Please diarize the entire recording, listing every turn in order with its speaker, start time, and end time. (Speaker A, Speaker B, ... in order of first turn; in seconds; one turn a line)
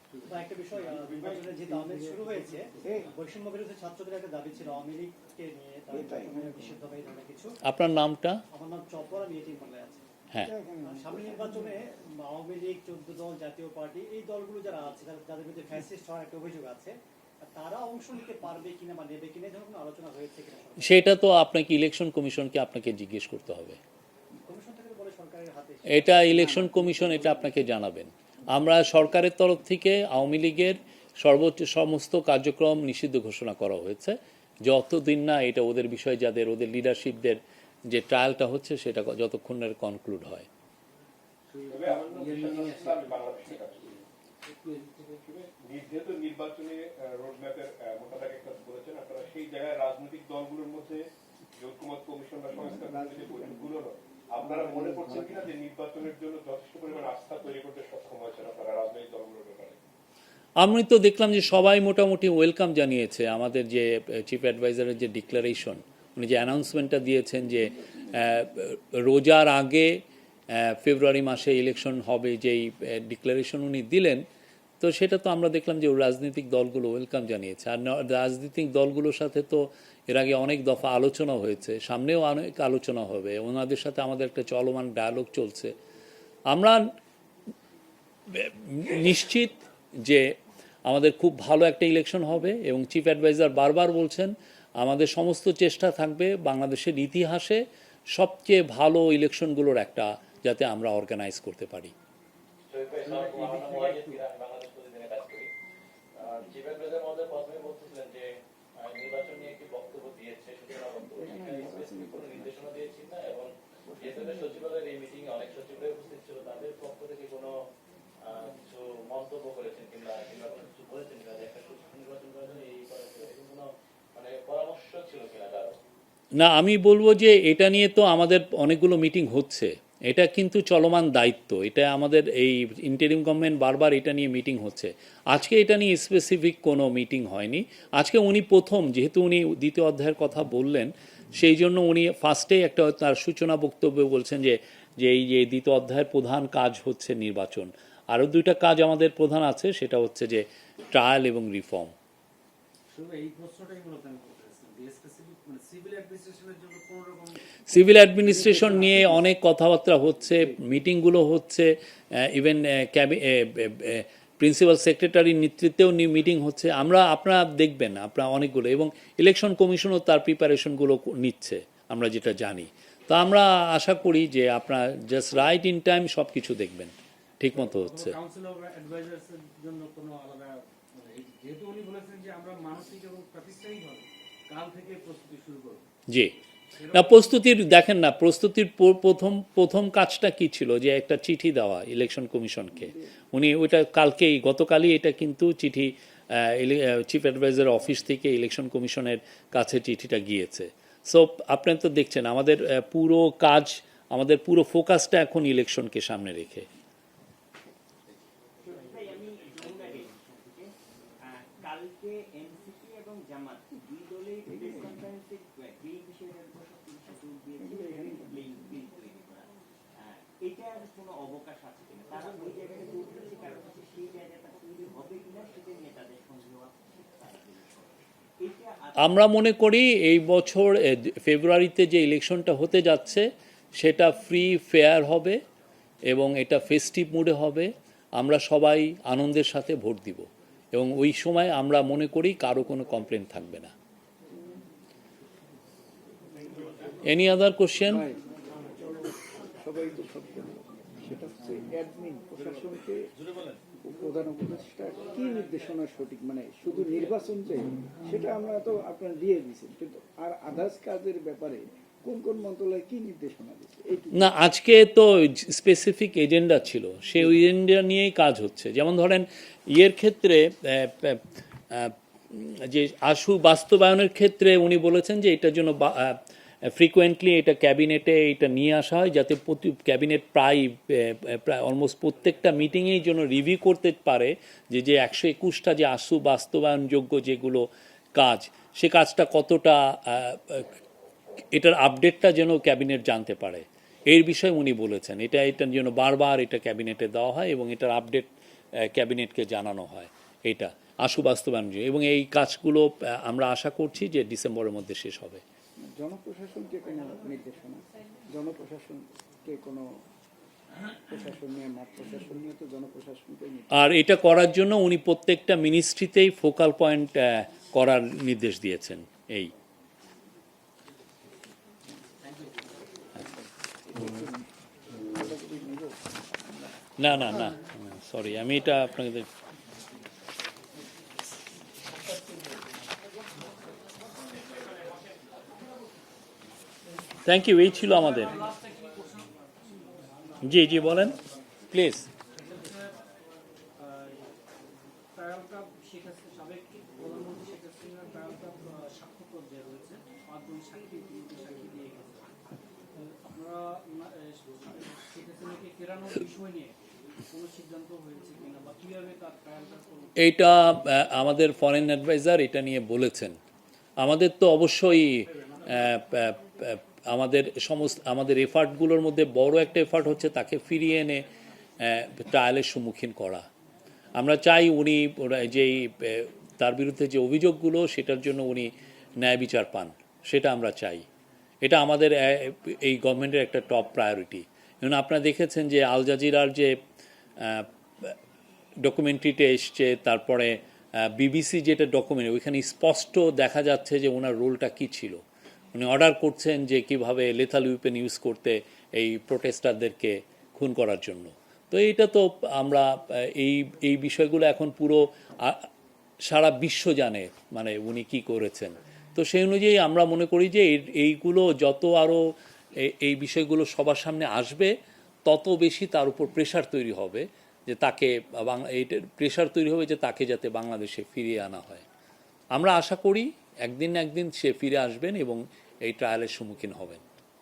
Speaker A: 0.3-7.5
Speaker B: 1.3-2.0
Speaker C: 1.9-2.4
Speaker B: 2.8-3.1
Speaker B: 5.9-6.7
Speaker D: 7.6-8.4
Speaker A: 8.5-10.0
Speaker B: 10.4-11.7
Speaker A: 10.8-21.1
Speaker D: 20.8-23.8
Speaker A: 24.4-27.4
Speaker D: 25.9-40.5
Speaker C: 41.5-43.7
Speaker E: 41.7-44.0
Speaker C: 44.5-45.2
Speaker E: 45.2-51.0
Speaker E: 51.6-59.8
Speaker B: 52.5-53.8
Speaker B: 54.4-55.5
Speaker D: 60.6-70.0
Speaker D: 70.5-74.2
Speaker D: 74.8-85.7
Speaker D: 86.5-86.9
Speaker D: 88.3-90.3
Speaker D: 90.9-97.6
Speaker D: 98.1-101.9
Speaker F: 102.7-105.5
Speaker C: 103.1-104.2
Speaker F: 106.1-117.5
Speaker B: 111.1-112.8
Speaker B: 113.8-114.7
Speaker F: 118.2-125.8
Speaker D: 126.4-151.9
Speaker C: 152.9-157.8
Speaker D: 157.7-178.1
Speaker B: 158.2-159.2
Speaker C: 158.4-158.7
Speaker C: 177.5-185.8
Speaker C: 186.7-187.4
Speaker D: 186.9-206.7
Speaker G: 208.6-229.3
Speaker B: 214.4-215.0
Speaker B: 217.6-218.6
Speaker D: 229.0-235.4
Speaker D: 236.1-243.7
Speaker C: 246.3-247.0
Speaker D: 247.0-248.1
Speaker B: 247.9-248.2
Speaker B: 248.8-253.0
Speaker C: 252.4-252.6
Speaker C: 253.2-253.6
Speaker B: 253.8-264.3
Speaker D: 264.1-290.8
Speaker D: 291.5-305.4
Speaker B: 305.8-309.8
Speaker B: 311.1-313.8
Speaker D: 313.7-319.5
Speaker B: 323.9-326.7
Speaker D: 327.0-329.3
Speaker D: 337.2-338.3
Speaker C: 337.8-341.3
Speaker D: 340.4-341.2
Speaker D: 341.7-342.1
Speaker C: 342.3-343.0
Speaker C: 343.8-344.3
Speaker C: 345.1-352.4
Speaker C: 353.0-356.7
Speaker C: 357.3-360.1
Speaker D: 360.2-363.4
Speaker D: 364.0-371.3
Speaker C: 365.2-366.0
Speaker D: 371.8-373.4
Speaker D: 374.1-381.1
Speaker D: 381.6-386.8
Speaker D: 387.4-388.1
Speaker D: 388.8-395.2
Speaker D: 395.7-405.7
Speaker D: 406.3-412.3
Speaker D: 412.8-414.7
Speaker D: 415.3-421.8
Speaker D: 422.5-427.0